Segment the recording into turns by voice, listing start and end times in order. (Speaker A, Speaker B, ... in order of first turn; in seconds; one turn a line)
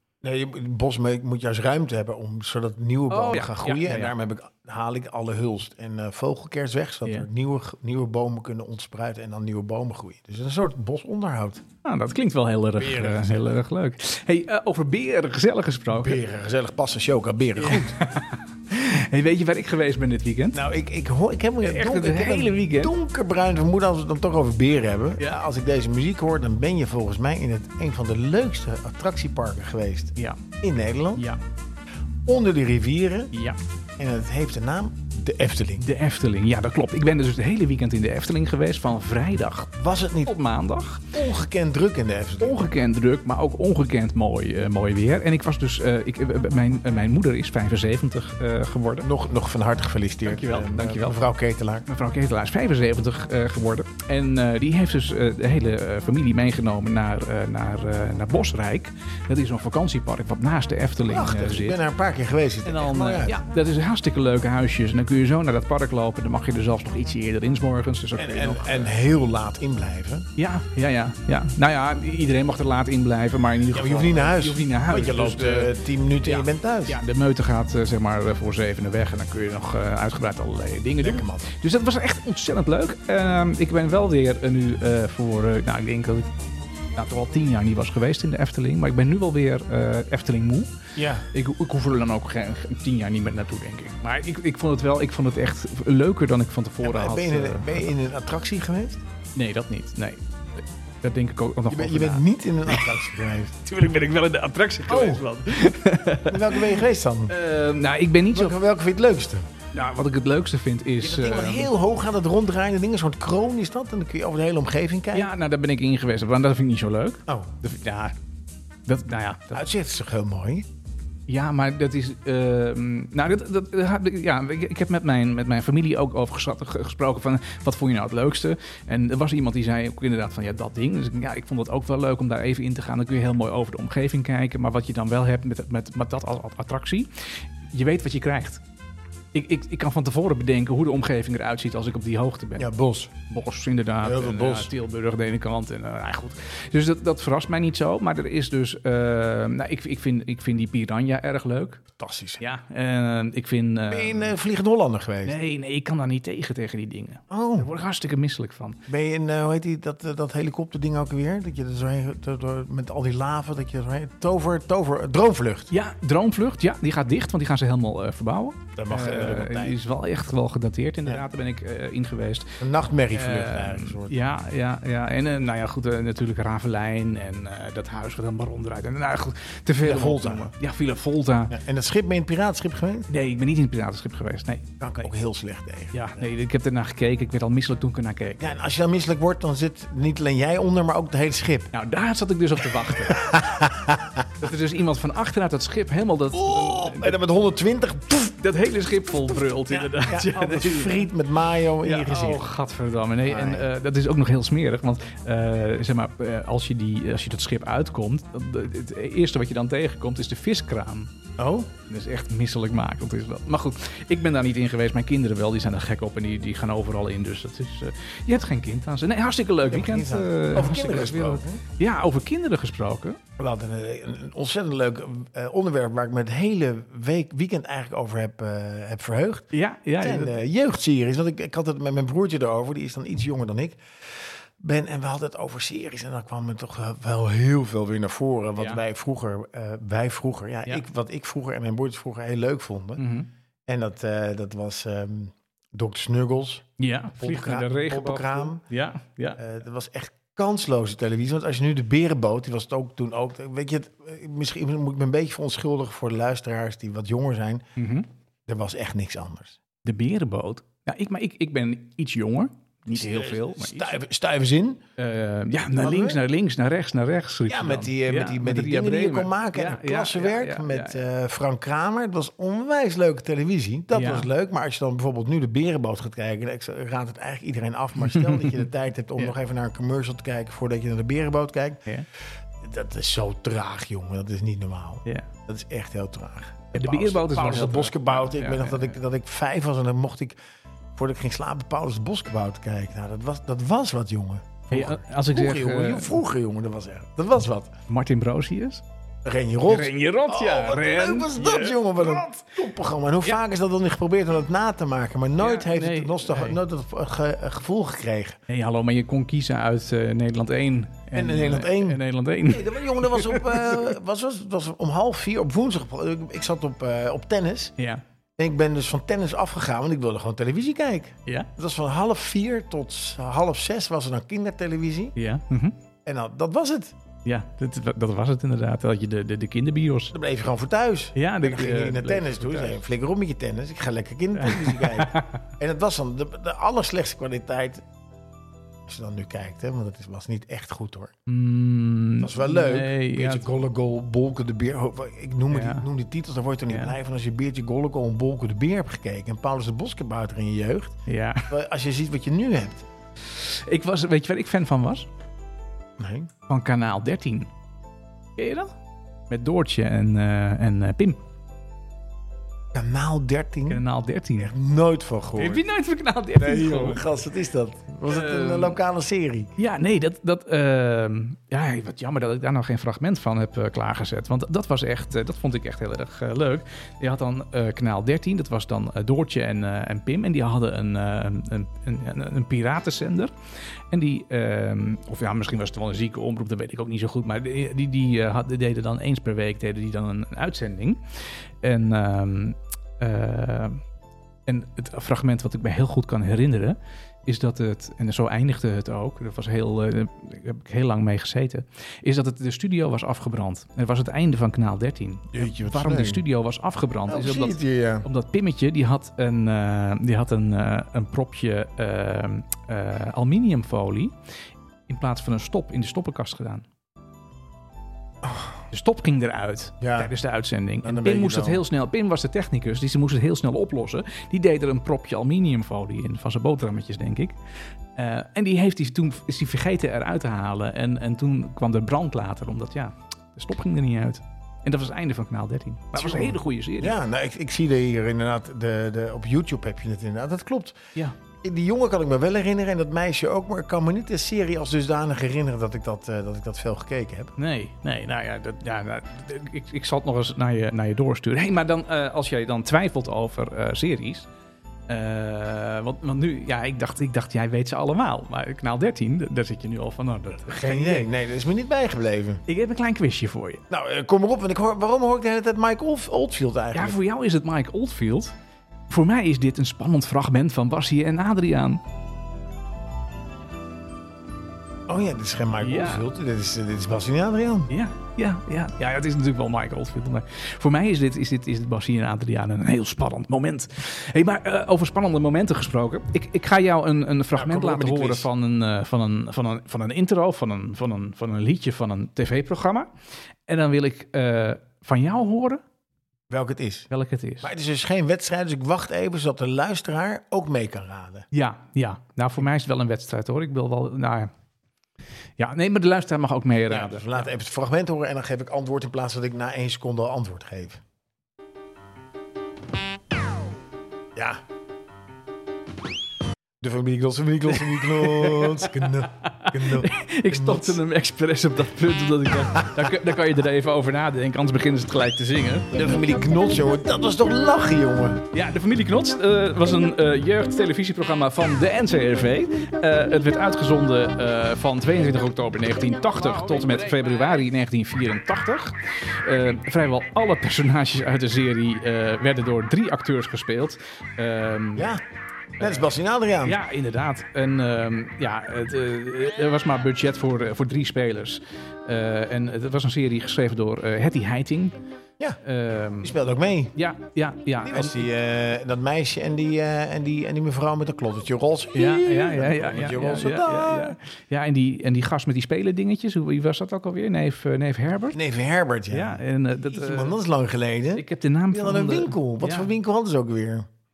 Speaker A: 0.2-11.6
Speaker B: 3.1-4.2
Speaker B: 11.8-16.2
Speaker A: 12.8-13.4
Speaker A: 15.9-18.0
Speaker B: 17.6-20.6
Speaker A: 20.5-31.2
Speaker B: 21.6-22.9
Speaker B: 31.1-31.4
Speaker A: 32.3-33.3
Speaker B: 33.3-33.6
Speaker A: 34.0-35.8
Speaker B: 35.8-41.1
Speaker A: 39.8-40.3
Speaker A: 41.1-42.7
Speaker B: 42.4-49.1
Speaker A: 49.0-51.9
Speaker B: 50.2-51.3
Speaker B: 51.9-61.8
Speaker A: 61.0-63.4
Speaker B: 62.6-68.9
Speaker A: 68.2-70.3
Speaker B: 70.4-75.7
Speaker A: 73.7-77.0
Speaker B: 76.2-86.3
Speaker A: 81.0-81.5
Speaker B: 87.0-90.7
Speaker A: 91.0-91.2
Speaker B: 91.3-97.9
Speaker A: 96.8-99.0
Speaker B: 99.4-100.2
Speaker B: 101.0-102.9
Speaker A: 101.7-103.5
Speaker B: 103.6-108.6
Speaker A: 104.9-105.8
Speaker A: 106.3-107.3
Speaker A: 108.3-109.5
Speaker B: 109.7-111.7
Speaker A: 111.0-115.3
Speaker B: 115.1-118.2
Speaker A: 117.3-117.5
Speaker B: 118.9-119.7
Speaker A: 119.5-120.7
Speaker B: 121.3-138.6
Speaker B: 139.3-142.7
Speaker A: 142.6-143.1
Speaker B: 143.3-151.8
Speaker A: 144.0-144.7
Speaker A: 152.0-152.4
Speaker B: 152.4-154.3
Speaker A: 153.9-155.4
Speaker B: 155.2-158.8
Speaker A: 157.3-157.7
Speaker A: 158.9-165.7
Speaker B: 165.7-172.6
Speaker A: 168.8-169.8
Speaker A: 172.6-174.2
Speaker B: 173.1-181.6
Speaker A: 179.8-180.5
Speaker A: 181.5-183.1
Speaker B: 183.1-185.1
Speaker A: 184.8-186.3
Speaker B: 185.9-188.4
Speaker A: 188.4-191.7
Speaker B: 191.7-193.4
Speaker A: 192.9-194.5
Speaker B: 194.4-197.2
Speaker A: 196.3-198.4
Speaker B: 198.4-201.1
Speaker A: 199.7-202.5
Speaker B: 201.8-223.2
Speaker A: 203.2-203.7
Speaker A: 219.7-221.6
Speaker A: 223.4-243.0
Speaker B: 229.5-230.4
Speaker B: 238.6-238.8
Speaker B: 243.0-243.3
Speaker A: 243.7-248.6
Speaker B: 246.8-249.4
Speaker A: 249.4-257.6
Speaker B: 257.8-258.1
Speaker A: 258.5-259.6
Speaker B: 259.8-263.9
Speaker A: 262.9-264.8
Speaker B: 265.0-271.0
Speaker A: 265.8-266.2
Speaker A: 267.5-290.4
Speaker B: 273.9-274.3
Speaker B: 278.0-279.3
Speaker B: 286.7-289.0
Speaker A: 290.9-297.8
Speaker B: 294.7-296.2
Speaker B: 297.9-298.8
Speaker A: 299.2-308.4
Speaker B: 299.7-302.5
Speaker B: 305.4-306.6
Speaker B: 308.5-313.9
Speaker A: 311.1-317.7
Speaker A: 318.4-325.1
Speaker B: 325.2-325.8
Speaker A: 326.1-326.9
Speaker B: 327.2-330.1
Speaker A: 330.1-337.9
Speaker B: 331.1-332.8
Speaker B: 334.4-335.4
Speaker A: 338.9-341.1
Speaker B: 341.3-343.5
Speaker A: 342.2-352.9
Speaker B: 345.5-345.9
Speaker B: 346.7-346.9
Speaker B: 351.1-351.5
Speaker B: 353.3-355.1
Speaker A: 356.0-356.3
Speaker B: 356.5-357.5
Speaker B: 358.4-358.7
Speaker B: 359.3-361.2
Speaker A: 362.7-363.8
Speaker B: 363.7-364.5
Speaker A: 364.4-365.7
Speaker B: 365.4-367.0
Speaker A: 366.4-369.5
Speaker B: 368.1-368.8
Speaker B: 369.6-383.3
Speaker B: 383.9-391.0
Speaker B: 391.6-393.8
Speaker B: 394.5-414.1
Speaker A: 405.3-406.2
Speaker A: 407.1-408.1
Speaker B: 414.9-416.7
Speaker A: 418.2-418.6
Speaker B: 418.7-427.4
Speaker A: 419.8-420.1
Speaker A: 420.8-421.6
Speaker B: 428.0-437.0
Speaker A: 435.9-440.8
Speaker A: 441.4-447.3
Speaker B: 447.4-454.3
Speaker B: 454.9-461.1
Speaker A: 460.5-462.4
Speaker B: 462.5-463.6
Speaker A: 463.7-467.0
Speaker B: 466.7-468.4
Speaker B: 468.9-471.8
Speaker A: 474.9-477.7
Speaker B: 475.6-476.1
Speaker B: 477.7-492.9
Speaker A: 487.4-488.3
Speaker B: 493.5-495.6
Speaker A: 496.3-496.9
Speaker B: 496.9-497.5
Speaker A: 497.4-501.3
Speaker B: 501.3-504.3
Speaker B: 505.4-507.2
Speaker A: 506.7-510.8
Speaker A: 514.1-514.4
Speaker A: 516.6-520.8
Speaker B: 517.5-525.7
Speaker A: 522.6-522.9
Speaker A: 525.7-528.2
Speaker B: 528.3-544.9
Speaker A: 544.8-545.0
Speaker A: 545.6-546.6
Speaker B: 545.6-545.9
Speaker B: 546.4-554.8
Speaker B: 555.4-556.2
Speaker A: 556.0-556.7
Speaker B: 556.7-558.0
Speaker A: 557.6-564.0
Speaker B: 561.7-568.2
Speaker A: 568.1-573.7
Speaker B: 568.9-570.2
Speaker B: 571.0-572.7